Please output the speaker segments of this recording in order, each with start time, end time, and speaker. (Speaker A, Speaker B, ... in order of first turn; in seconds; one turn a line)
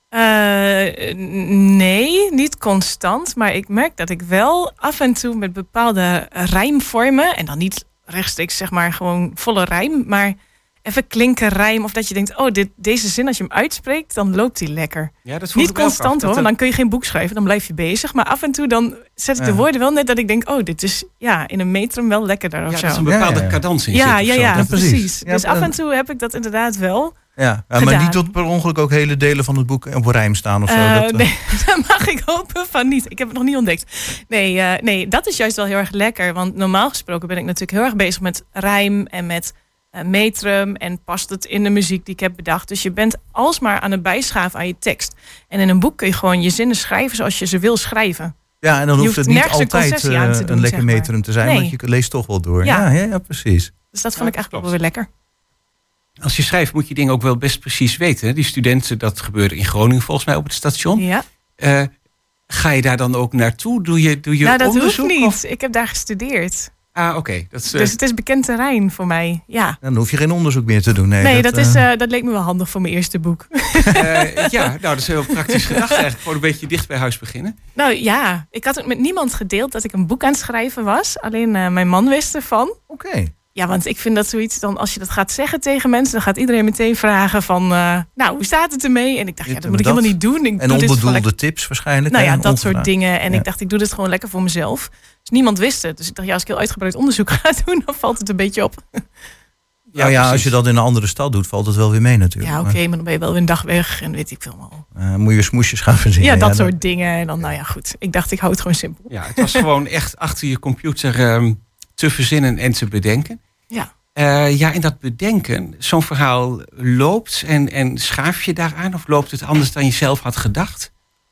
Speaker A: 0.1-23.1
Speaker B: 15.2-16.5
Speaker C: 19.4-19.6
Speaker B: 22.7-24.6
Speaker C: 23.1-23.6
Speaker A: 23.9-27.2
Speaker C: 24.2-25.7
Speaker C: 27.4-31.3
Speaker A: 27.8-28.2
Speaker A: 30.7-48.3
Speaker C: 48.6-53.7
Speaker A: 49.0-51.8
Speaker A: 52.6-52.9
Speaker A: 53.9-55.1
Speaker B: 54.2-54.7
Speaker B: 56.2-61.0
Speaker A: 61.0-61.2
Speaker B: 61.6-61.9
Speaker B: 62.5-65.4
Speaker A: 64.4-66.7
Speaker B: 67.0-68.0
Speaker A: 67.7-69.8
Speaker C: 69.8-71.8
Speaker A: 71.2-74.6
Speaker B: 73.9-77.6
Speaker A: 75.3-76.0
Speaker A: 77.8-82.8
Speaker C: 82.9-83.3
Speaker A: 83.5-91.3
Speaker C: 89.5-93.5
Speaker A: 92.1-99.0
Speaker B: 99.9-100.5
Speaker C: 100.0-102.8
Speaker A: 102.4-104.9
Speaker C: 105.0-106.7
Speaker A: 106.2-109.6
Speaker B: 109.1-113.4
Speaker B: 114.2-120.9